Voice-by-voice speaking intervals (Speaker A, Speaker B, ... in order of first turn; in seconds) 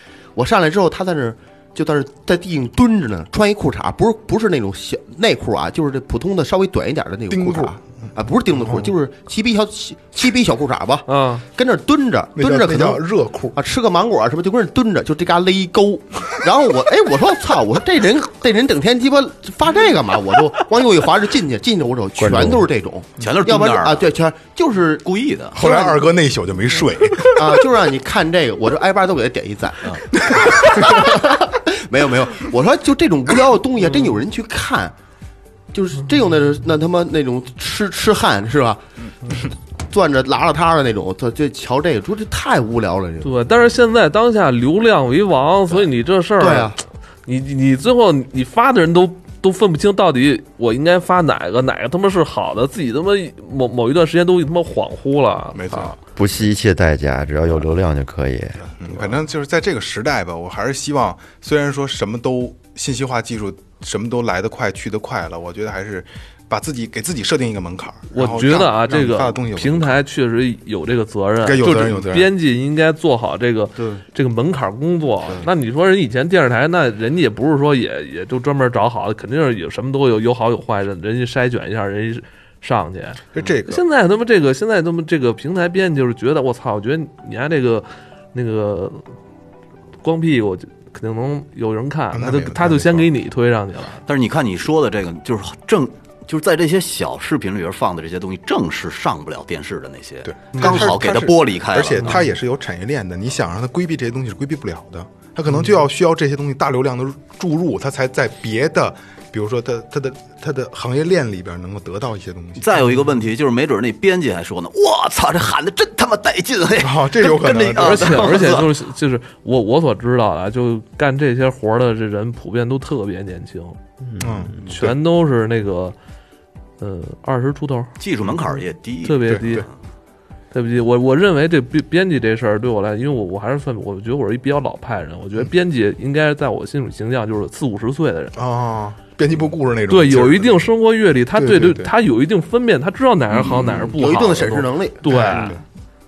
Speaker A: 0.4-26.1, 27.4-34.9, 35.7-43.3, 46.4-46.8, 73.8-74.0, 100.6-100.9, 143.9-145.5
Speaker B: 7.3-8.9, 12.4-13.6, 25.5-27.6, 30.3-31.1, 55.5-56.0, 58.7-70.0, 71.4-72.3, 83.3-83.8, 92.1-93.1, 100.2-112.7, 116.8-118.3, 124.1-125.0, 129.3-129.7, 138.3-140.7, 141.3-141.9, 145.1-145.6
Speaker C: 11.1-11.4, 33.8-34.2, 43.2-46.7, 47.3-56.0, 68.1-89.0, 90.0-94.0, 117.8-123.9, 124.5-126.0, 126.8-128.0, 129.0-129.7, 130.5-138.4, 139.9-145.5
Speaker D: 22.2-22.7, 56.2-58.6
Speaker E: 23.2-24.1, 25.0-25.6, 94.1-102.2, 112.6-118.8, 128.0-129.7